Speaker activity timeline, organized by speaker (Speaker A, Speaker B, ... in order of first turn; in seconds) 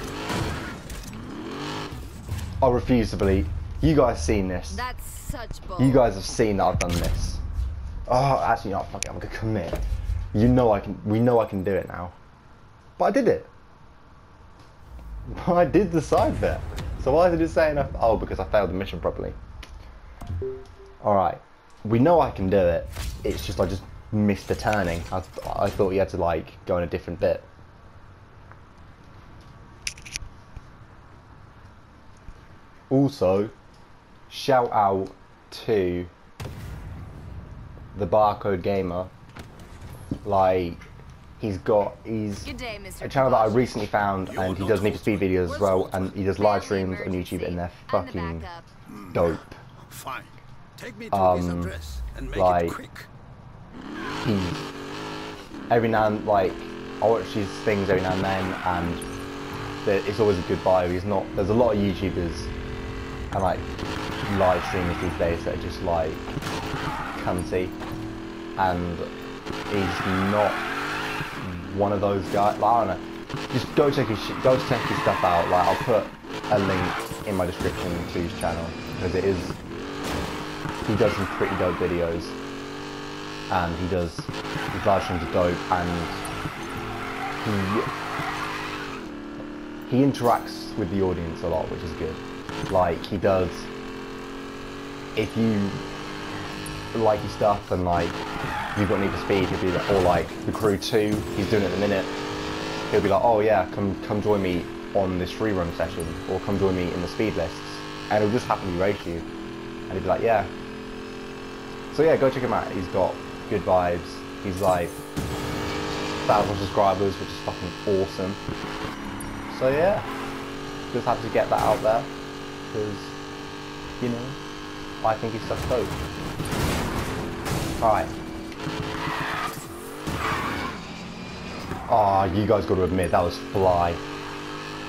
Speaker A: 2.6-4.8, 5.8-7.4, 8.1-12.2, 13.0-13.5, 15.3-19.4, 21.0-27.5, 32.9-33.5, 34.3-36.1, 37.9-39.1, 40.2-40.8, 41.4-48.5, 49.1-49.6, 51.1-51.7, 52.3-52.8, 54.2-54.7, 55.7-59.0, 59.8-62.5, 63.3-63.7, 64.2-66.2, 67.1-67.8, 68.6-69.1, 69.7-70.6, 71.4-79.6, 80.8-82.3, 83.5-86.2, 87.4-87.9, 89.9-93.7, 95.2-95.8, 96.9-98.2, 98.7-102.1, 102.9-109.2, 109.9-110.5, 111.9-115.0, 116.2-118.4, 119.5-120.1, 120.9-122.1, 122.7-123.2, 124.0-124.4, 125.0-126.0, 127.8-128.1, 131.9-134.0
Speaker B: 4.7-6.1, 42.4-43.8, 46.3-48.7
Speaker C: 44.2-46.2, 48.9-53.1